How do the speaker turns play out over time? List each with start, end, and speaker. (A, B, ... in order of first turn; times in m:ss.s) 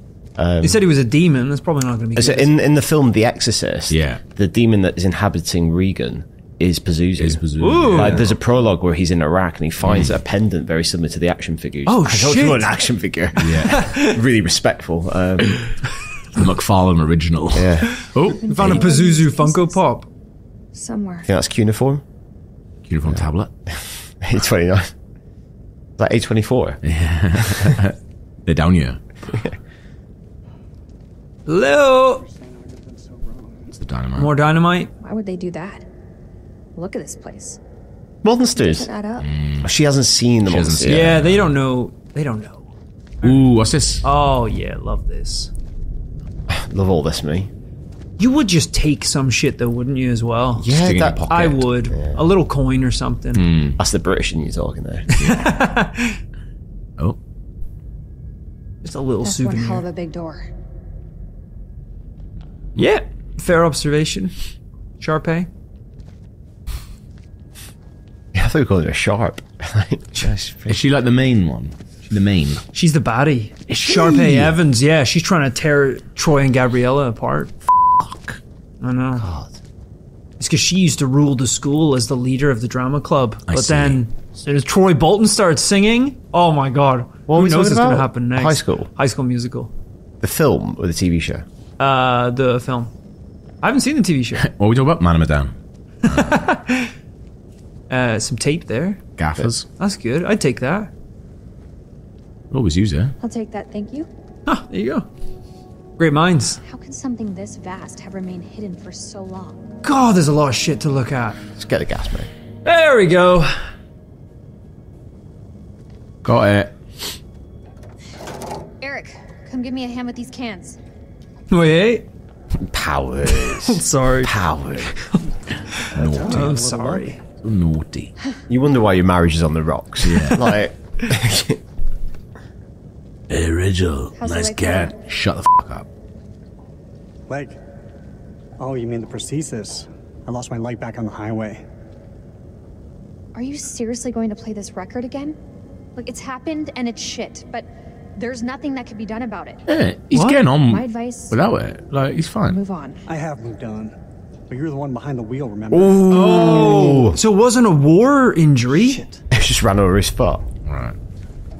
0:00.4-0:00.8 A
0:00.6-0:02.5 B
0:02.2-0:15.6 A
0:03.9-0:04.2 C
0:07.2-0:08.4 C
0:07.6-0:08.2 B
0:09.8-0:10.2 C
0:11.9-0:12.7 B
0:13.4-0:13.8 C
0:13.7-0:14.2 B
0:16.3-0:18.8 C
0:17.5-0:18.0 A
0:18.2-0:19.9 D
0:18.5-0:20.1 B
0:20.7-0:21.3 D
0:21.2-0:22.0 A
0:22.9-0:23.5 C
0:23.1-0:24.9 A
0:26.0-0:26.8 A
0:26.8-0:29.0 C
0:27.4-0:27.7 A
0:31.5-0:32.2 B
0:32.1-0:33.7 E
0:33.7-0:34.3 C
0:34.2-0:34.9 B
0:35.0-0:35.9 D
0:36.8-0:37.6 D
0:38.2-0:38.9 A
0:38.6-0:39.3 D
0:39.2-0:39.7 C
0:39.6-0:41.2 A
0:40.5-0:41.6 C
0:40.9-0:42.7 B
0:43.2-0:44.0 C
0:44.0-0:45.5 B
0:46.5-0:47.5 A
0:48.2-0:50.7 B
0:50.5-0:51.3 A
0:50.7-0:51.7 C
0:51.3-0:53.5 B
0:51.9-0:52.2 A
0:53.3-0:53.8 C
0:53.8-0:55.1 A
0:55.1-0:56.2 B
0:55.2-0:55.5 C
0:58.8-0:59.9 B
0:59.2-1:00.5 D
1:02.8-1:04.4 B
1:05.0-1:05.5 B
1:08.3-1:10.8 A
1:10.7-1:12.6 C
1:12.7-1:17.5 B
1:13.8-1:14.5 A
1:17.8-1:18.4 C
1:18.8-1:19.3 B
1:19.2-1:19.6 A
1:20.4-1:29.7 B
1:23.5-1:24.0 C
1:27.3-1:28.9 A
1:30.2-1:31.5 A
1:31.8-1:32.9 B
1:33.6-1:34.5 B
1:34.4-1:36.5 C
1:36.1-1:36.9 B
1:37.9-1:39.0 B
1:39.2-1:39.7 C
1:39.8-1:40.9 B
1:42.5-1:43.2 C
1:43.2-1:44.1 D
1:44.5-1:45.1 B
1:46.0-1:46.6 B
1:46.6-1:49.7 D
1:49.8-1:51.4 B
1:51.6-1:52.3 A
1:52.6-1:53.6 B
1:56.2-1:56.8 C
1:58.8-2:00.8 D
2:01.5-2:02.1 B
2:02.6-2:04.9 A
2:03.6-2:04.4 B
2:05.7-2:07.2 B
2:05.9-2:07.1 E
2:06.0-2:06.6 C
2:06.1-2:06.3 A
2:07.4-2:08.1 C
2:08.5-2:11.6 A
2:10.0-2:10.5 C
2:13.3-2:15.9 C
2:14.2-2:15.0 D
2:17.3-2:17.6 E
2:18.6-2:21.6 E
2:23.4-2:25.4 D
2:26.0-2:29.6 D
2:29.7-2:32.6 C
2:30.1-2:30.5 B
2:30.6-2:31.4 D
2:32.5-2:33.0 D
2:33.1-2:34.0 E
2:34.5-2:36.5 E
2:35.7-2:37.2 A
2:36.1-2:39.0 B
2:38.8-2:39.2 E
2:39.3-2:40.4 A
2:40.7-2:41.0 C